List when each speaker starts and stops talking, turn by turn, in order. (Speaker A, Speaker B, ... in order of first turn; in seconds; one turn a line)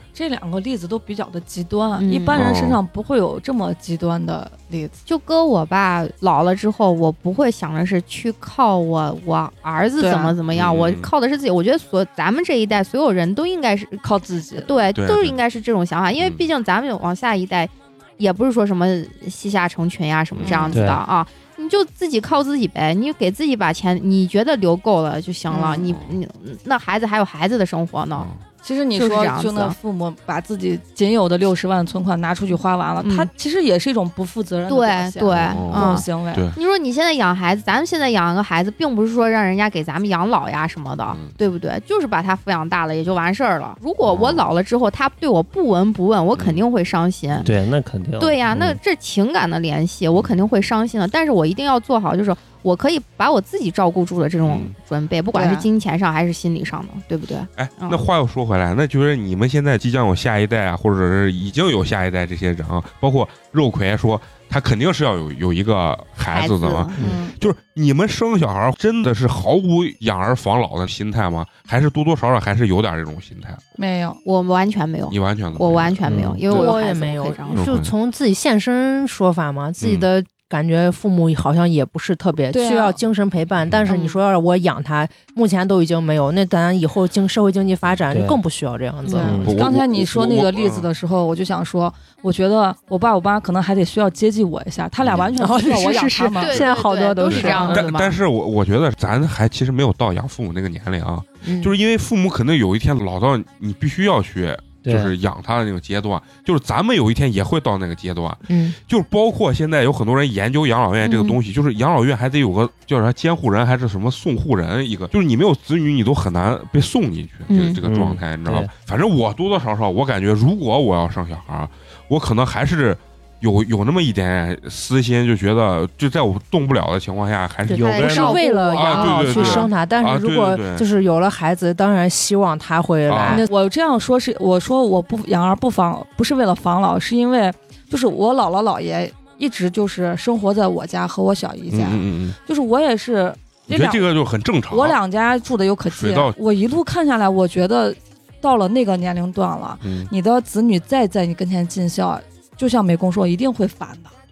Speaker A: 0.1-5.0
Speaker B: 2.0-2.4
Speaker C: 2.3-2.8
Speaker B: 5.1-14.0
Speaker A: 10.0-10.4
Speaker C: 10.5-11.1
Speaker A: 14.0-14.8
Speaker B: 14.6-28.3
Speaker C: 14.9-15.4
Speaker C: 16.2-16.4
Speaker C: 20.3-20.7
Speaker A: 20.4-20.8
Speaker D: 20.7-21.0
Speaker A: 25.5-25.9
Speaker C: 25.8-26.2
Speaker C: 28.2-28.4
Speaker A: 28.6-36.5
Speaker B: 28.9-29.8
Speaker B: 33.0-33.3
Speaker B: 34.7-47.5
Speaker C: 35.3-36.6
Speaker C: 41.1-41.4
Speaker C: 44.0-44.5
Speaker C: 46.4-46.6
Speaker D: 47.5-48.8
Speaker B: 48.2-58.0
Speaker C: 54.4-54.8
Speaker A: 55.3-55.7
Speaker C: 57.6-73.6
Speaker B: 66.3-67.0
Speaker A: 67.0-67.3
Speaker A: 73.8-74.2
Speaker B: 74.2-77.7
Speaker C: 75.1-76.4
Speaker D: 76.1-76.4
Speaker E: 76.5-89.5
Speaker A: 76.5-76.8
Speaker C: 77.5-77.9
Speaker C: 79.8-80.1
Speaker A: 82.5-83.0
Speaker C: 83.7-83.9
Speaker B: 83.9-84.2
Speaker D: 88.1-88.4
Speaker B: 89.0-89.3
Speaker D: 89.2-89.5
Speaker C: 89.4-90.9
Speaker A: 89.5-96.8
Speaker C: 95.0-95.3
Speaker E: 95.4-97.9
Speaker B: 96.4-98.2
Speaker C: 97.3-128.1
Speaker E: 101.4-101.7
Speaker D: 104.8-105.1
Speaker E: 108.5-108.8
Speaker B: 111.0-111.4
Speaker B: 117.5-117.8
Speaker D: 117.8-118.7
Speaker B: 127.7-129.7
Speaker E: 127.7-133.5
Speaker D: 127.7-128.4
Speaker C: 128.7-130.8
Speaker C: 133.1-133.4
Speaker A: 133.3-144.1
Speaker C: 141.7-142.4
Speaker C: 143.7-145.0
Speaker A: 144.7-154.1
Speaker C: 145.9-146.3
Speaker C: 149.8-150.1